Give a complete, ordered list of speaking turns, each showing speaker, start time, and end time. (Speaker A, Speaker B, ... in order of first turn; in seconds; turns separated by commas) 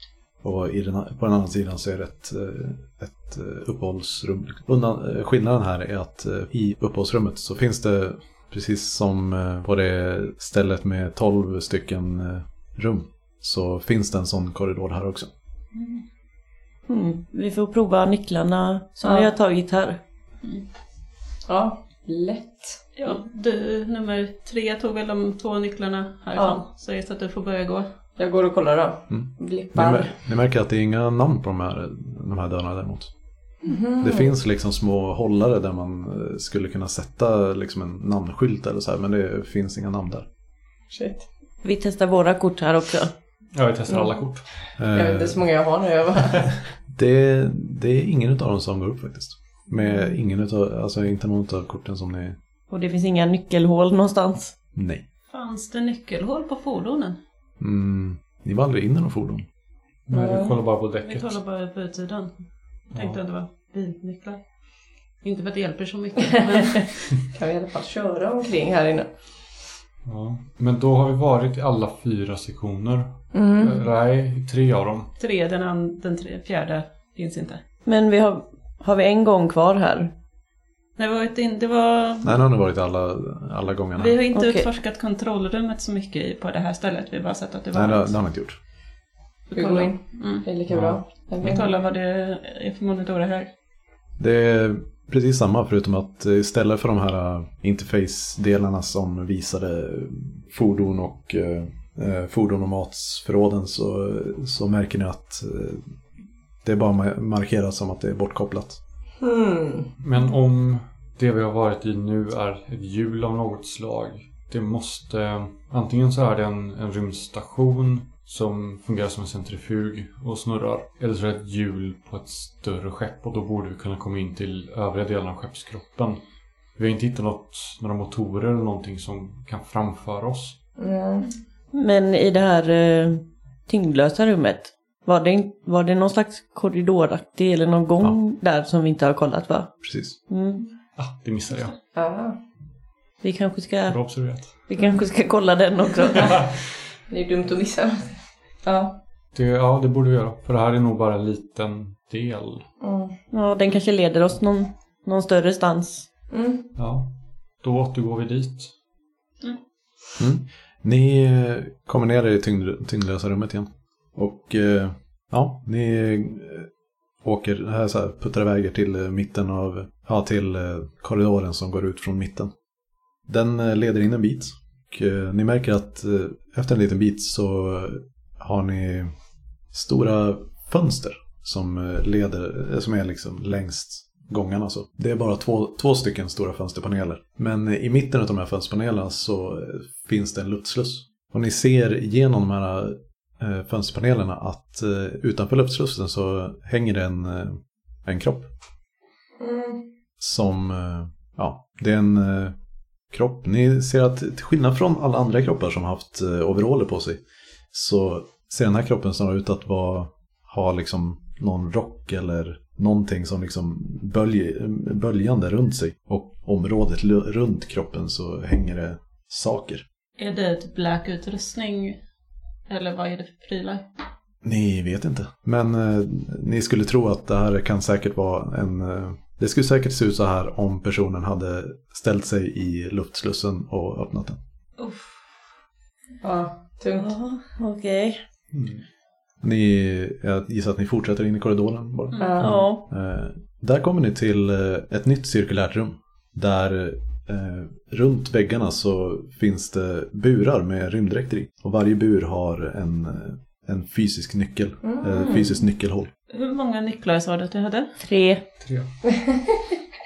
Speaker A: 0.4-15.3, Speaker B: 16.9-20.0, Speaker C: 19.0-19.3, Speaker C: 21.5-23.2, Speaker D: 23.0-27.9, Speaker C: 26.4-26.6, Speaker C: 28.2-30.2, Speaker A: 29.1-33.1, Speaker C: 33.6-34.3, Speaker A: 34.0-40.3, Speaker C: 40.9-41.2, Speaker B: 41.6-43.1, Speaker E: 43.5-44.4, Speaker A: 44.8-45.4, Speaker C: 44.9-46.5, Speaker A: 46.9-52.4, Speaker B: 52.7-54.5, Speaker A: 54.7-55.0, Speaker D: 55.3-57.2, Speaker A: 57.6-59.5, Speaker E: 60.1-61.4, Speaker C: 60.1-60.5, Speaker D: 61.0-62.3, Speaker D: 62.9-64.4, Speaker E: 62.9-63.2, Speaker D: 65.2-67.0, Speaker C: 66.7-69.1, Speaker E: 70.0-75.1, Speaker C: 73.3-73.8, Speaker D: 75.2-77.6, Speaker B: 77.8-80.1, Speaker D: 81.0-82.4, Speaker A: 82.2-84.2, Speaker D: 84.0-88.1, Speaker B: 84.3-84.7, Speaker A: 87.7-88.6, Speaker D: 89.5-90.5, Speaker C: 89.5-91.7, Speaker E: 90.7-91.0, Speaker D: 91.4-93.5, Speaker A: 94.2-105.8, Speaker A: 106.6-108.8, Speaker C: 109.2-109.9, Speaker E: 110.0-126.2, Speaker E: 126.8-130.6, Speaker C: 130.8-131.3, Speaker B: 131.7-139.7, Speaker A: 139.8-140.2, Speaker B: 140.3-140.6, Speaker E: 141.0-141.7, Speaker C: 141.9-142.3, Speaker B: 143.2-144.0, Speaker E: 143.9-144.6, Speaker B: 144.7-146.4, Speaker E: 146.2-146.5, Speaker C: 147.1-149.0, Speaker E: 149.3-152.7, Speaker C: 152.8-153.1, Speaker B: 153.3-156.1, Speaker C: 156.3-156.7, Speaker E: 156.8-158.7, Speaker A: 160.2-166.7, Speaker A: 167.2-172.5, Speaker A: 173.3-179.1, Speaker A: 179.7-198.5, Speaker C: 199.4-199.8, Speaker A: 200.2-202.6, Speaker A: 203.1-207.2, Speaker A: 207.7-219.8, Speaker D: 220.2-222.0, Speaker D: 222.7-223.8, Speaker A: 224.4-234.4, Speaker D: 234.8-235.2, Speaker C: 236.2-237.1, Speaker B: 237.0-238.2, Speaker E: 238.5-238.8, Speaker A: 239.4-256.1, Speaker D: 242.1-242.4, Speaker C: 242.2-242.5, Speaker E: 242.4-242.7, Speaker B: 242.4-242.8, Speaker C: 254.8-255.6, Speaker D: 256.3-257.9, Speaker B: 258.0-258.4, Speaker E: 258.6-258.9, Speaker C: 259.1-259.5